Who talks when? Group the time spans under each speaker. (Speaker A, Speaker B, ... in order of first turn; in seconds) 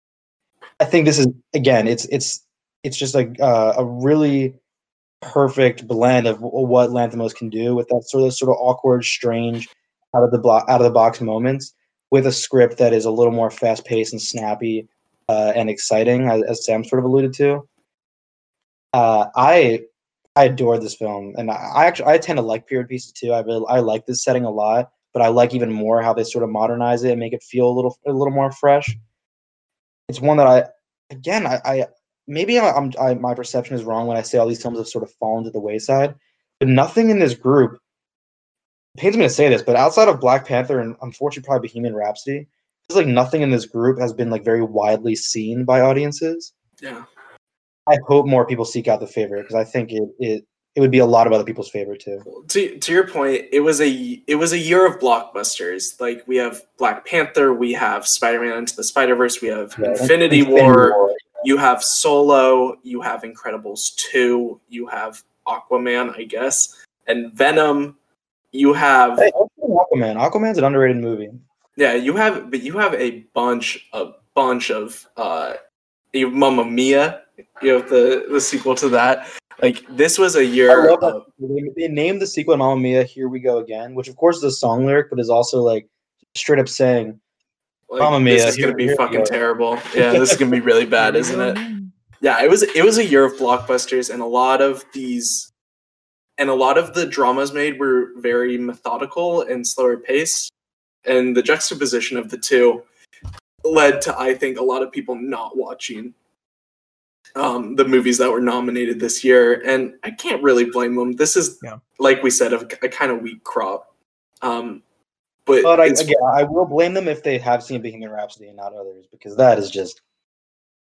Speaker A: 0.8-4.6, 5.2-17.7, 18.9-19.9, 20.4-29.0, 30.1-37.8, 39.0-46.5, 47.9-52.2, 59.8-61.4, 69.2-71.4, 80.7-87.2, 88.0-89.3, 90.0-90.4, 115.6-120.0
Speaker B: 46.8-47.1, 52.3-68.0, 68.5-69.3, 71.8-75.6, 76.1-81.2, 87.9-91.6, 92.2-95.5, 96.4-100.5, 101.0-102.9, 103.7-106.2, 107.4-113.9, 114.4-114.8, 115.5-116.1